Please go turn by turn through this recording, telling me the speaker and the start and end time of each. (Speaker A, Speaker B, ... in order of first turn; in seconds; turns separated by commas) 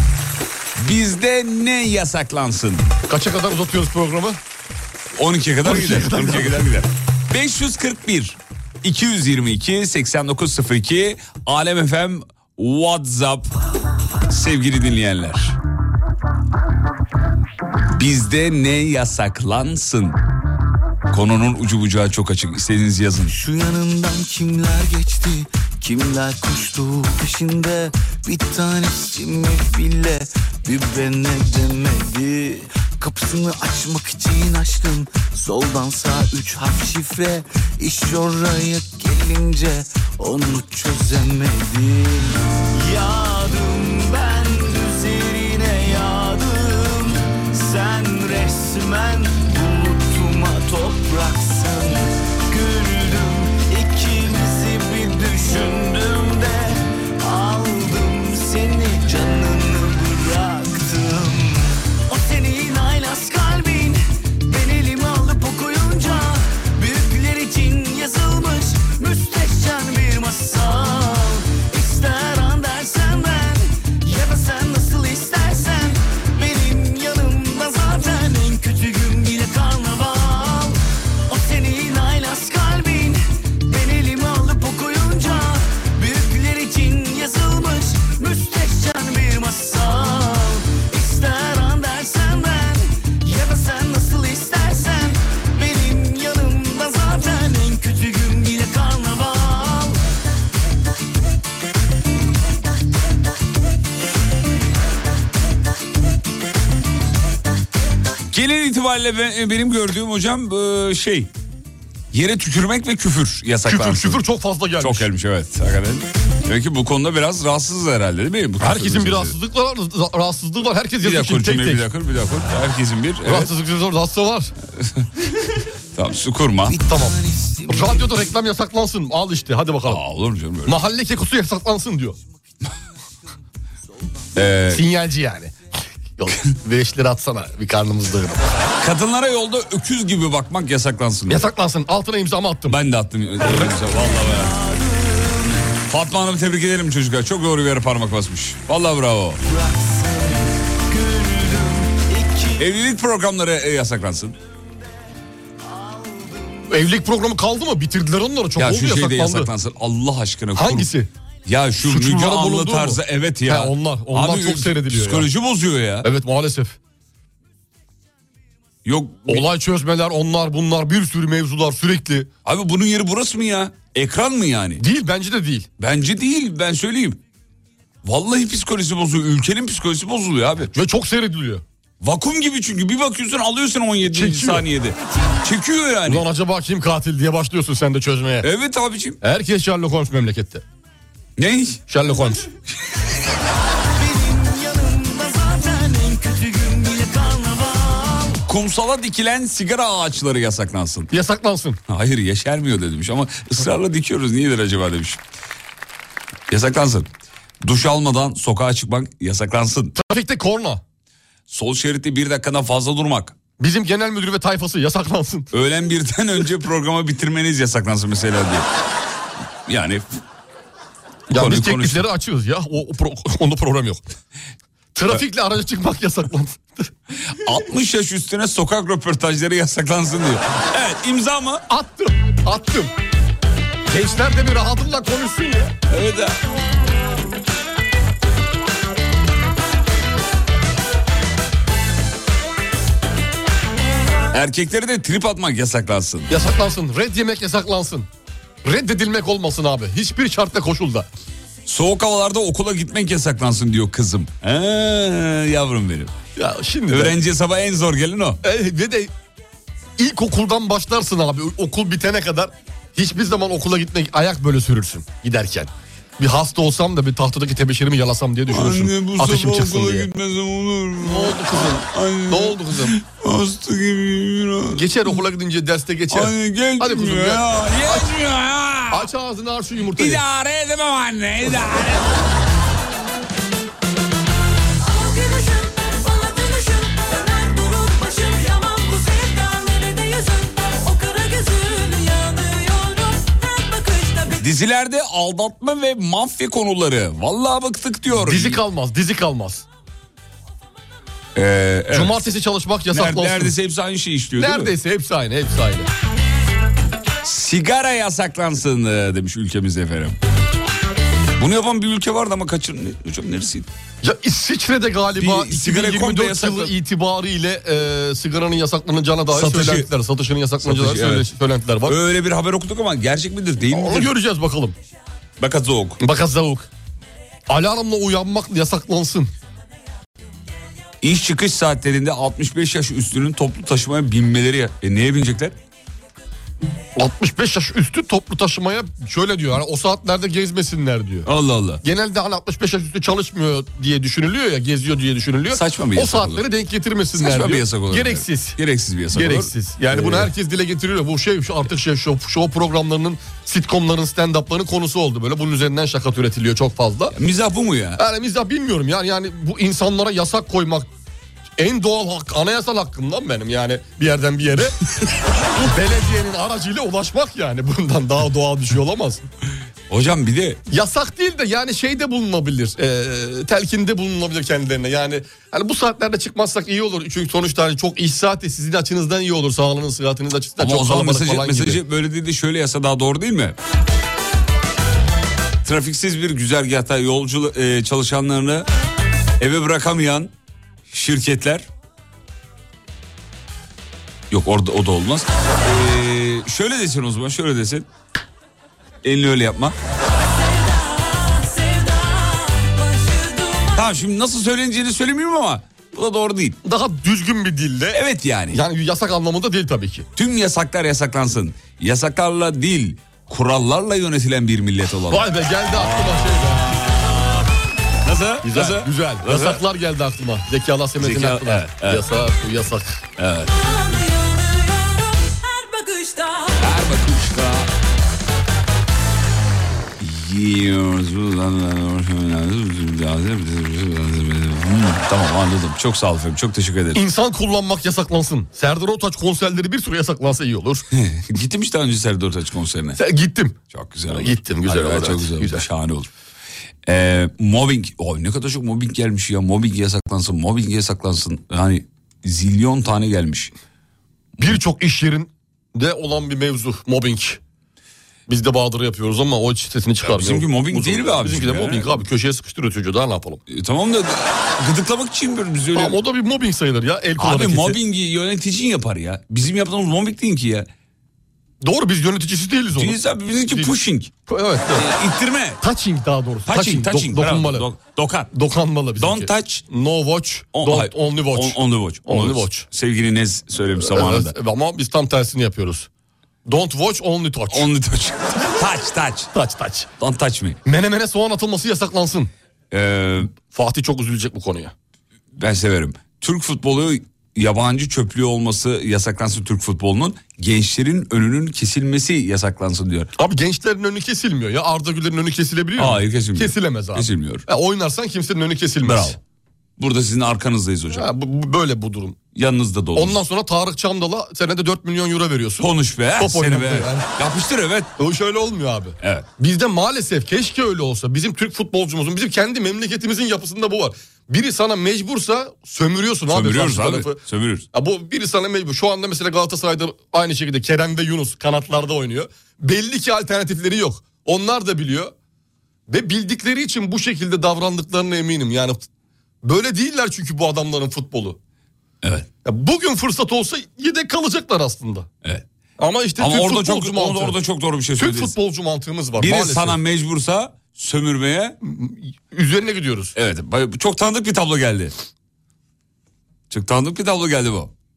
Speaker A: 0.8-2.9, Speaker B: 3.1-4.4, Speaker A: 5.2-13.5, Speaker B: 5.6-6.7, Speaker A: 14.3-15.6, Speaker A: 17.9-20.2, Speaker A: 21.1-23.3, Speaker C: 23.3-52.0, Speaker C: 52.5-53.0, Speaker C: 53.5-56.1, Speaker C: 58.5-61.3, Speaker A: 108.3-111.3, Speaker A: 112.1-114.2, Speaker B: 113.7-115.1, Speaker A: 114.8-119.3, Speaker B: 118.6-121.8, Speaker A: 121.0-123.5, Speaker B: 123.2-124.5, Speaker A: 125.9-126.8, Speaker C: 126.7-128.3, Speaker B: 126.8-127.2, Speaker B: 127.7-130.0, Speaker A: 129.8-130.8, Speaker B: 130.7-132.2, Speaker C: 134.0-134.5, Speaker A: 134.3-134.8, Speaker B: 134.7-135.5, Speaker B: 136.2-138.5, Speaker A: 138.8-141.4, Speaker B: 141.3-142.8, Speaker A: 142.7-144.5, Speaker A: 145.9-149.4, Speaker A: 152.6-154.3, Speaker B: 156.7-159.5, Speaker A: 158.6-160.9, Speaker B: 160.6-161.1, Speaker A: 161.4-166.1, Speaker B: 161.8-165.3, Speaker B: 166.0-166.8, Speaker A: 168.8-169.4, Speaker B: 169.3-172.3, Speaker A: 172.4-174.8, Speaker B: 174.8-175.7, Speaker A: 175.8-177.2, Speaker A: 178.0-180.7, Speaker B: 180.7-181.6, Speaker A: 182.0-186.2, Speaker B: 184.0-184.7, Speaker B: 186.0-188.5, Speaker A: 188.4-189.2, Speaker B: 189.2-190.6, Speaker A: 191.4-191.8, Speaker B: 191.9-192.5, Speaker A: 198.4-201.1, Speaker B: 201.1-201.8, Speaker A: 201.9-205.2, Speaker A: 206.5-207.1, Speaker A: 207.6-209.9, Speaker B: 209.9-210.8, Speaker A: 211.5-213.3, Speaker B: 213.6-215.5, Speaker A: 215.5-218.7, Speaker A: 219.7-220.2, Speaker B: 221.3-224.0, Speaker A: 221.3-222.0, Speaker B: 224.9-226.9, Speaker A: 227.4-231.6, Speaker B: 231.7-232.9, Speaker B: 233.9-235.7, Speaker A: 235.9-236.4, Speaker A: 244.3-246.3, Speaker B: 246.3-248.1, Speaker B: 248.6-251.1, Speaker A: 251.7-256.1, Speaker B: 256.4-257.1, Speaker A: 256.9-258.4, Speaker B: 258.4-259.1, Speaker B: 260.0-270.1, Speaker A: 268.5-275.2, Speaker B: 271.0-272.9, Speaker B: 274.7-278.1, Speaker A: 276.1-279.1, Speaker B: 278.9-280.2, Speaker A: 279.9-282.2, Speaker D: 284.9-294.4, Speaker A: 294.4-298.6, Speaker B: 298.1-299.6, Speaker A: 301.3-302.2, Speaker B: 301.9-303.5, Speaker A: 302.9-304.7, Speaker B: 304.4-305.9, Speaker A: 307.2-310.2, Speaker A: 311.4-313.7, Speaker B: 314.0-321.9, Speaker A: 315.2-316.7, Speaker A: 319.3-319.9, Speaker A: 320.6-321.3, Speaker A: 321.9-324.1, Speaker B: 323.7-324.8, Speaker A: 325.4-326.0, Speaker B: 326.0-326.7, Speaker B: 327.5-329.3, Speaker A: 331.0-335.5, Speaker B: 337.0-341.3, Speaker A: 341.2-341.8, Speaker B: 341.8-348.6, Speaker A: 345.5-346.4, Speaker A: 347.1-350.3, Speaker B: 349.1-357.1, Speaker A: 357.1-358.0, Speaker B: 358.0-360.9, Speaker B: 361.6-364.8, Speaker B: 365.5-369.2, Speaker A: 369.9-370.6, Speaker B: 370.7-381.8, Speaker A: 380.6-383.6, Speaker A: 385.6-388.6, Speaker A: 389.4-390.3, Speaker A: 390.9-391.7, Speaker A: 394.3-397.9, Speaker A: 399.0-399.7, Speaker D: 400.2-403.9, Speaker A: 403.7-406.6, Speaker B: 406.6-410.1, Speaker A: 407.9-408.6, Speaker A: 410.1-416.4, Speaker B: 415.1-416.9, Speaker A: 418.0-419.6, Speaker B: 418.4-423.0, Speaker A: 421.0-422.1, Speaker A: 423.2-423.5, Speaker D: 423.6-426.7, Speaker A: 426.6-427.7, Speaker A: 430.0-437.0, Speaker B: 436.9-440.9, Speaker A: 440.9-443.0, Speaker B: 443.0-443.6, Speaker A: 443.7-446.1, Speaker B: 444.1-445.6, Speaker A: 446.9-453.5, Speaker B: 454.4-457.4, Speaker B: 458.3-463.4, Speaker A: 460.0-462.0, Speaker A: 463.5-465.9, Speaker B: 465.7-467.8, Speaker A: 467.2-470.7, Speaker B: 471.6-473.7, Speaker A: 472.7-474.1, Speaker B: 474.3-474.9, Speaker A: 474.8-475.6, Speaker B: 475.6-477.7, Speaker A: 476.5-478.3, Speaker B: 478.3-482.6, Speaker A: 479.0-479.6, Speaker A: 480.5-484.3, Speaker B: 483.8-485.9, Speaker B: 486.4-487.7, Speaker A: 487.5-489.3, Speaker B: 489.3-489.9, Speaker A: 490.0-490.6, Speaker B: 490.6-492.3, Speaker A: 492.7-493.3, Speaker B: 493.4-494.7, Speaker A: 495.4-503.1, Speaker B: 503.2-509.2, Speaker A: 505.8-507.4, Speaker A: 508.8-509.2, Speaker A: 509.8-511.1, Speaker B: 510.9-512.2, Speaker A: 512.3-513.2, Speaker B: 512.9-517.0, Speaker A: 515.6-517.9, Speaker B: 518.0-527.2, Speaker A: 519.0-519.3, Speaker A: 526.3-527.6, Speaker B: 527.7-535.1, Speaker B: 535.9-538.9, Speaker B: 539.4-541.4, Speaker B: 542.4-545.1, Speaker B: 545.8-547.4, Speaker A: 546.2-548.3, Speaker B: 548.0-549.8, Speaker A: 549.2-551.6, Speaker B: 551.6-553.1, Speaker A: 553.1-554.9, Speaker A: 556.5-557.7